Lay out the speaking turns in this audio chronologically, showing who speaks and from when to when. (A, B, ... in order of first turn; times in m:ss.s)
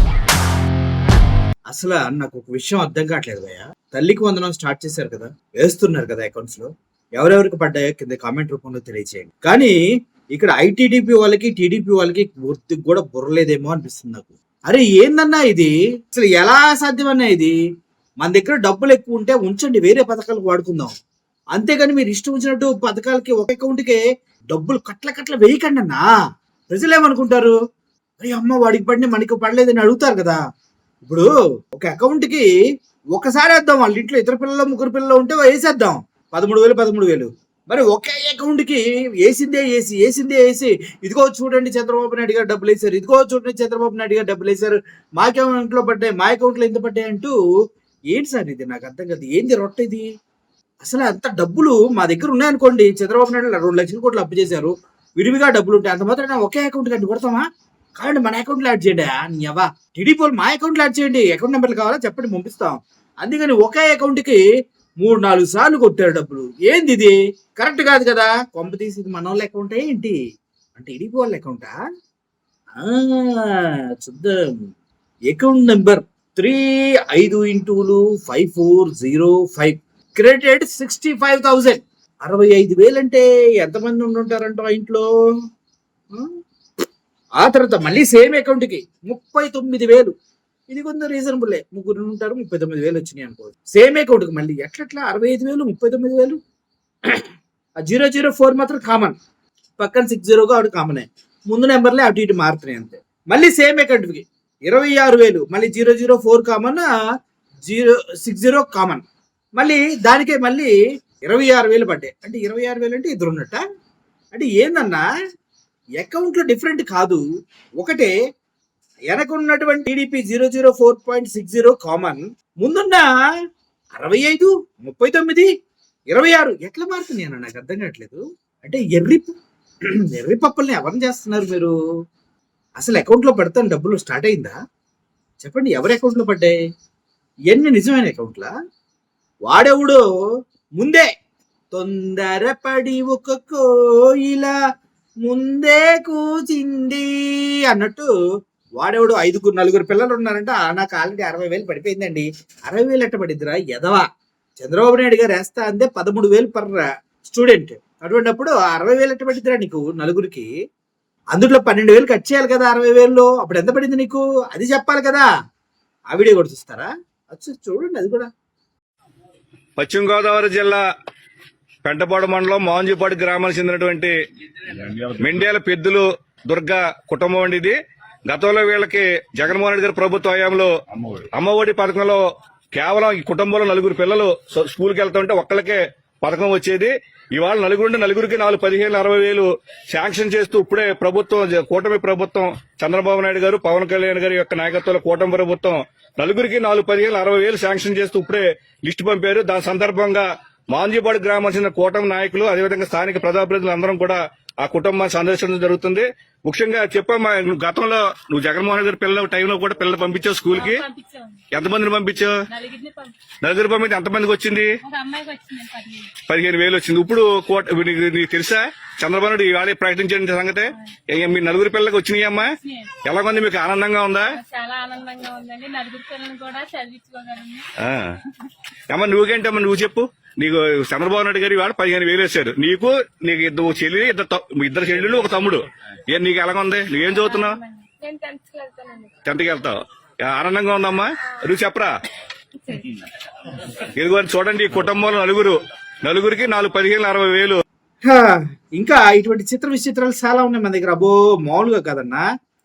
0:01.7-0:09.8 A
0:10.3-0:17.5 A
0:18.2-0:20.9 A
0:21.6-0:24.0 A
0:24.5-0:26.1 A
0:26.7-0:27.6 A
0:28.2-0:30.4 A
0:31.1-0:32.5 A
0:33.1-0:47.4 A
0:48.1-0:50.1 A
0:50.8-0:57.4 A
0:58.0-1:04.4 A
1:05.0-1:10.2 A
1:10.8-1:11.8 A
1:12.8-1:14.4 A
1:15.3-1:25.1 A
1:27.4-1:30.1 A
1:30.7-1:36.4 A
1:37.8-1:39.2 A
1:39.8-1:46.9 A
1:47.7-1:49.0 A
1:49.6-1:53.6 A
1:54.3-1:55.0 A
1:56.0-1:57.2 A
1:57.8-1:58.1 A
1:59.1-2:03.1 A
2:04.0-2:05.5 A
2:06.1-2:09.3 A
2:10.1-2:11.7 A
2:12.8-2:14.6 A
2:15.4-2:16.6 A
2:17.5-2:18.5 A
2:19.5-2:20.0 A
2:20.8-2:21.1 A
2:21.7-2:23.6 A
2:24.2-2:24.5 A
2:25.2-2:27.1 A
2:27.7-2:28.1 A
2:28.8-2:34.1 A
2:34.6-2:40.5 A
2:41.3-2:45.3 A
2:46.1-2:48.3 A
2:49.8-2:50.8 B
2:51.8-2:54.2 B
2:54.8-3:02.2 B
3:02.7-3:30.8 B
3:30.5-3:31.4 C
3:31.5-3:32.4 B
3:32.5-3:33.1 C
3:33.4-3:34.7 B
3:34.8-3:36.1 C
3:36.2-3:42.5 B
3:42.4-3:43.0 C
3:43.0-3:44.3 B
3:44.3-3:47.7 C
3:47.8-3:48.2 B
3:48.9-3:57.6 B
3:57.2-3:59.1 C
3:59.3-4:01.9 B
4:02.6-4:03.0 C
4:03.8-4:07.6 B
4:08.0-4:12.2 A